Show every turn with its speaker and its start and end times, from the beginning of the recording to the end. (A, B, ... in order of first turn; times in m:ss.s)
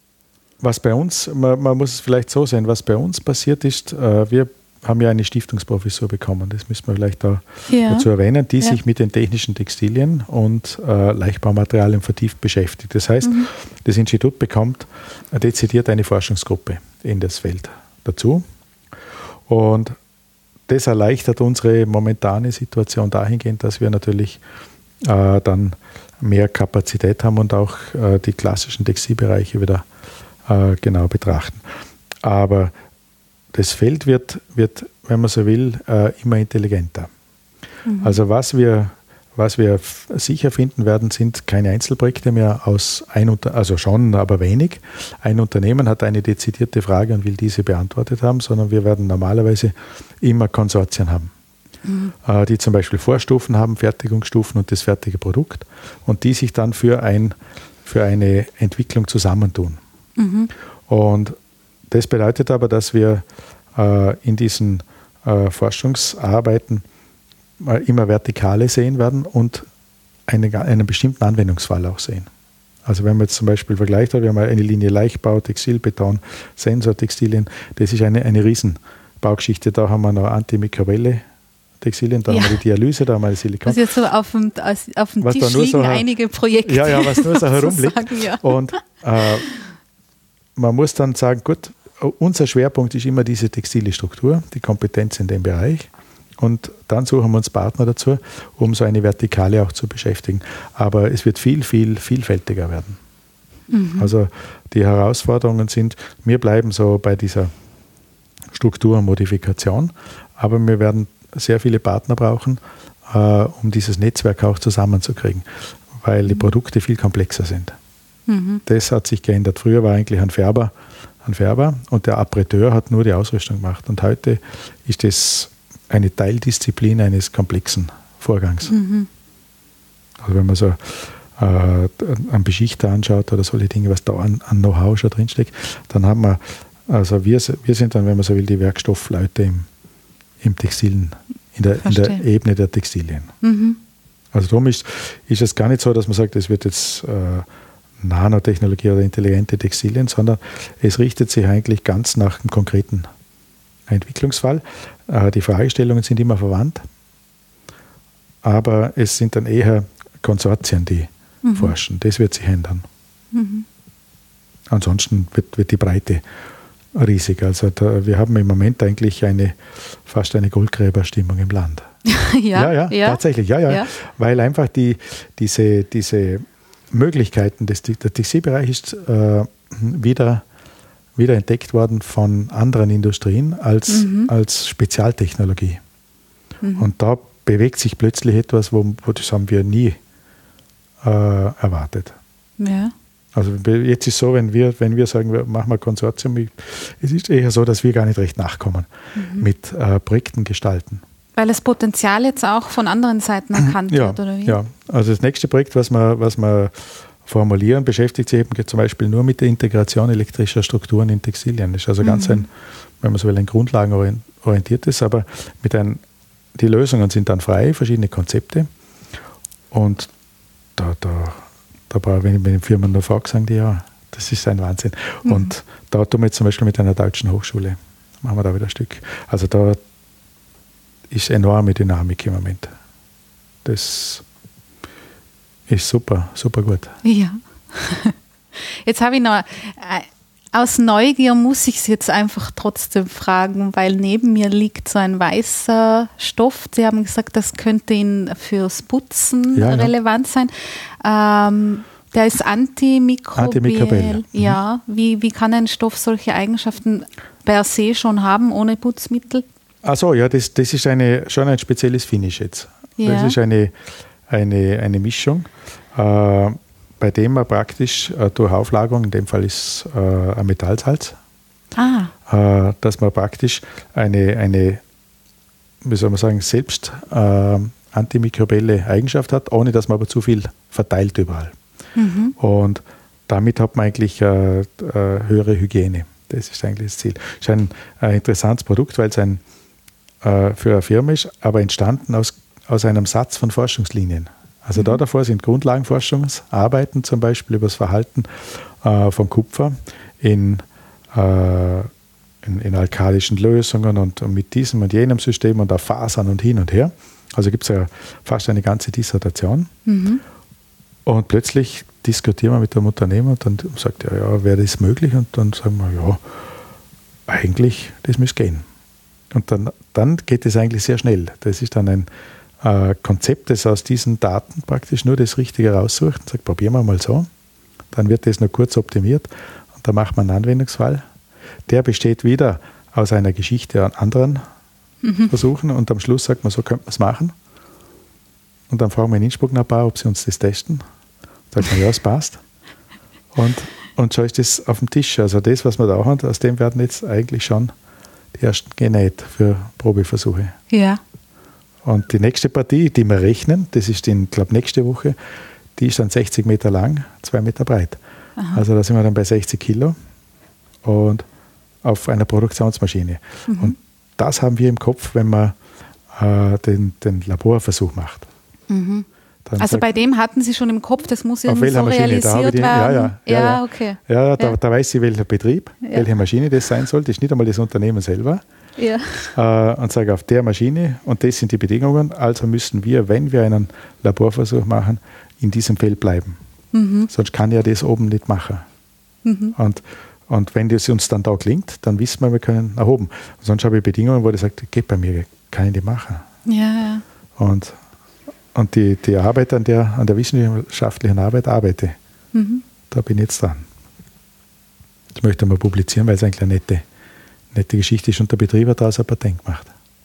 0:00.6-0:18.4 A
0:07.7-0:08.1 B
0:13.2-0:13.5 B
0:19.5-0:20.0 A
0:20.7-0:24.4 A
0:25.0-0:29.9 A
0:30.5-0:31.6 A
0:32.2-0:32.7 A
0:33.5-0:37.1 A
0:37.9-0:38.2 B
0:38.0-0:51.3 A
0:51.8-0:52.2 B
0:52.2-0:59.8 A
1:00.2-1:00.5 B
1:00.9-1:01.4 A
1:01.9-1:06.8 A
1:07.6-1:09.7 A
1:10.3-1:12.3 A
1:12.8-1:21.2 A
1:21.8-1:23.8 A
1:22.3-1:22.6 B
1:23.6-1:28.8 B
1:25.2-1:26.0 A
1:26.6-1:29.5 A
1:30.6-1:43.0 A
1:43.7-1:44.1 B
1:44.0-1:47.5 A
1:48.5-1:55.5 A
1:56.0-1:57.8 A
1:58.3-1:58.6 B
1:58.7-2:00.7 A
2:01.2-2:08.7 A
2:08.7-2:09.1 B
2:10.2-2:19.7 A
2:20.4-2:23.3 A
2:21.8-2:22.2 B
2:23.4-2:23.8 B
2:24.3-2:27.5 A
2:28.0-2:33.1 A
2:33.9-2:36.8 A
2:38.4-2:42.9 A
2:41.4-2:41.8 B
2:43.3-2:43.7 B
2:44.7-2:46.2 A
2:46.9-2:51.9 A
2:52.0-2:53.9 B
2:52.5-3:00.4 A
3:01.2-3:05.8 A
3:03.9-3:04.3 B
3:06.6-3:06.9 B
3:06.8-3:10.0 A
3:11.0-3:12.2 A
3:12.6-3:12.9 B
3:13.3-3:21.0 A
3:19.2-3:19.5 B
3:21.4-3:24.6 B
3:23.6-3:32.5 A
3:32.0-3:32.5 B
3:33.0-3:36.0 A
3:36.6-3:38.7 A
3:39.7-3:40.1 A
3:40.8-3:49.8 A
3:45.2-3:45.5 B
3:51.1-3:52.7 A
3:53.6-3:54.2 A
3:55.7-3:56.9 A
3:57.0-4:19.4 B
4:09.6-4:09.9 A
4:13.4-4:14.6 A
4:19.8-4:23.8 A
4:23.0-4:23.4 B
4:24.3-4:31.2 A
4:31.8-4:32.1 B
4:32.3-4:34.8 A
4:35.8-4:41.6 A
4:42.0-4:42.4 B
4:42.4-4:49.4 A
4:50.2-5:01.9 A
4:54.8-4:55.0 B
5:02.4-5:09.7 A
5:09.9-5:10.2 B
5:11.1-5:16.2 A
5:17.3-5:18.6 A
5:19.3-5:22.1 A
5:22.6-5:27.3 A
5:27.9-5:31.0 A
5:31.7-5:34.4 A
5:35.0-5:35.3 B
5:35.3-5:37.4 A
5:38.7-5:40.8 A
5:41.5-5:42.4 A
5:43.3-5:47.7 A
5:48.4-5:50.6 A
5:50.7-5:51.0 B
5:51.8-5:55.2 A
5:55.8-5:58.0 A
5:58.4-5:58.7 B
5:58.5-6:00.0 A
6:00.8-6:01.2 A
6:01.8-6:05.6 A
6:03.5-6:03.8 B
6:06.1-6:08.3 A
6:08.7-6:09.1 B
6:09.4-6:09.9 A
6:09.6-6:14.6 B
6:11.5-6:18.4 A
6:15.8-6:16.1 B
6:18.8-6:19.3 B
6:19.3-6:26.4 A
6:26.7-6:27.1 B
6:27.1-6:28.6 A
6:29.2-6:29.6 B
6:29.6-6:36.2 A
6:36.5-6:37.0 B
6:37.4-6:37.8 A
6:38.6-6:42.0 A
6:42.3-6:42.6 B
6:42.9-6:43.6 A
6:45.1-6:46.8 A
6:47.5-6:49.7 A